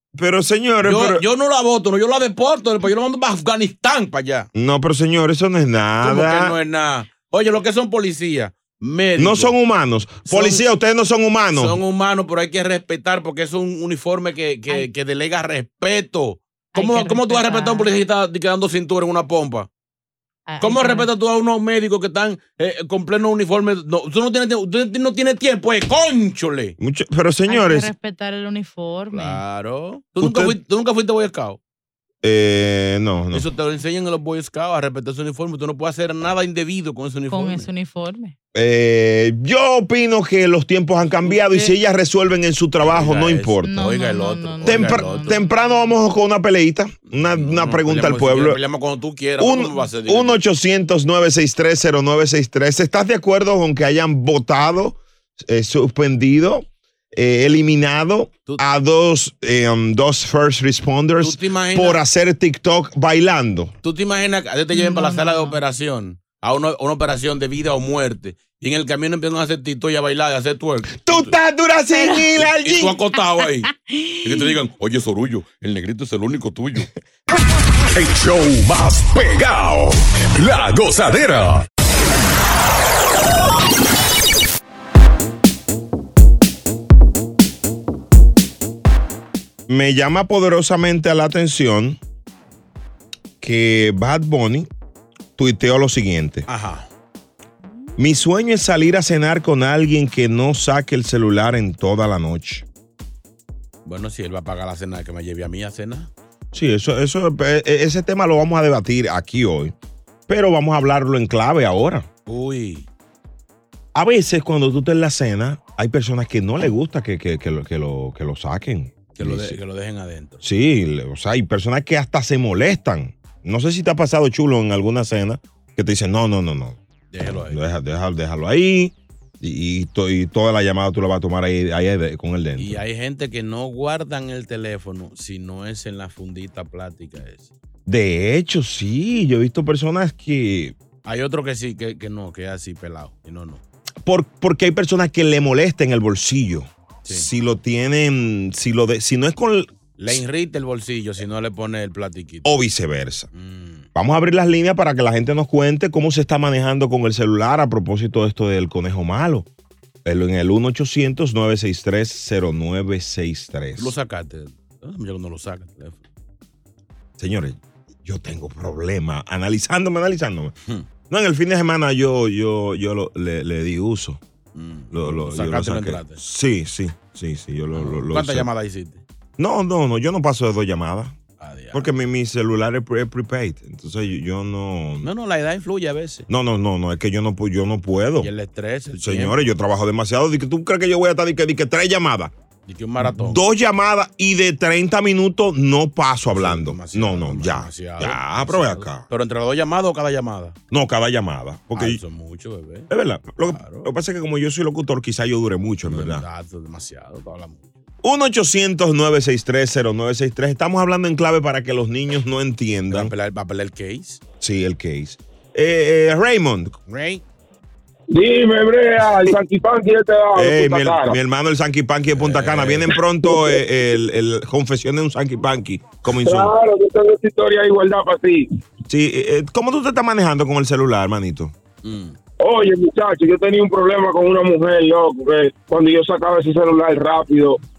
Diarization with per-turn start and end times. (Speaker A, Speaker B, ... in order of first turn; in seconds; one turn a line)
Speaker A: 0.1-1.2
Speaker B: 0.8-4.5
Speaker A: 4.5-6.5
Speaker B: 6.0-9.5
Speaker A: 9.2-11.8
Speaker B: 10.2-10.6
Speaker B: 11.5-19.7
Speaker C: 16.7-17.9
Speaker C: 20.5-21.1
Speaker B: 20.6-26.8
Speaker A: 26.8-27.9
Speaker C: 27.5-29.4
Speaker B: 29.1-31.6
Speaker A: 30.2-30.6
Speaker A: 32.2-33.5
Speaker B: 33.3-37.7
Speaker C: 37.3-38.3
Speaker A: 38.5-43.7
Speaker B: 42.8-45.4
Speaker C: 43.6-45.7
Speaker A: 44.6-48.6
Speaker B: 47.1-50.4
Speaker A: 49.4-63.7
Speaker B: 61.2-62.0
Speaker B: 63.8-71.3
Speaker C: 64.7-65.6
Speaker A: 71.0-73.0
Speaker C: 71.9-72.2
Speaker B: 72.4-73.7
Speaker C: 73.9-74.2
Speaker B: 74.2-76.9
Speaker D: 77.9-81.6
Speaker A: 89.7-92.0
Speaker A: 93.4-94.7
Speaker A: 95.4-96.5
Speaker B: 96.5-96.9
Speaker A: 98.0-102.6
Speaker B: 103.8-106.1
Speaker A: 106.5-109.7
Speaker A: 110.3-112.1
Speaker B: 112.3-112.8
Speaker A: 113.9-119.5
Speaker B: 119.1-120.4
Speaker A: 120.4-132.8
Speaker B: 127.1-127.6
Speaker B: 132.6-137.5
Speaker A: 137.8-140.7
Speaker B: 141.0-143.6
Speaker A: 144.0-150.2
Speaker B: 150.0-152.5
Speaker A: 152.4-153.3
Speaker B: 153.3-153.9
Speaker A: 153.9-159.5
Speaker A: 160.0-163.9
Speaker B: 163.8-166.0
Speaker A: 167.2-170.5
Speaker A: 171.1-174.2
Speaker B: 174.5-176.2
Speaker A: 174.9-178.5
Speaker B: 177.7-179.0
Speaker A: 179.4-181.2
Speaker B: 181.4-181.9
Speaker A: 181.7-185.1
Speaker B: 185.0-186.3
Speaker A: 186.3-188.3
Speaker B: 188.2-189.4
Speaker A: 188.9-192.3
Speaker B: 192.7-193.4
Speaker A: 193.0-199.0
Speaker B: 196.3-200.6
Speaker A: 200.7-202.0
Speaker B: 201.7-202.9
Speaker A: 202.9-206.2
Speaker B: 203.4-203.9
Speaker B: 205.8-207.8
Speaker A: 208.0-213.1
Speaker B: 212.9-214.2
Speaker A: 214.4-216.7
Speaker B: 216.9-217.2
Speaker E: 218.1-221.2
Speaker A: 220.3-226.5
Speaker B: 222.2-223.0
Speaker E: 226.2-228.4
Speaker A: 228.9-231.5
Speaker B: 231.8-232.2
Speaker E: 232.4-237.6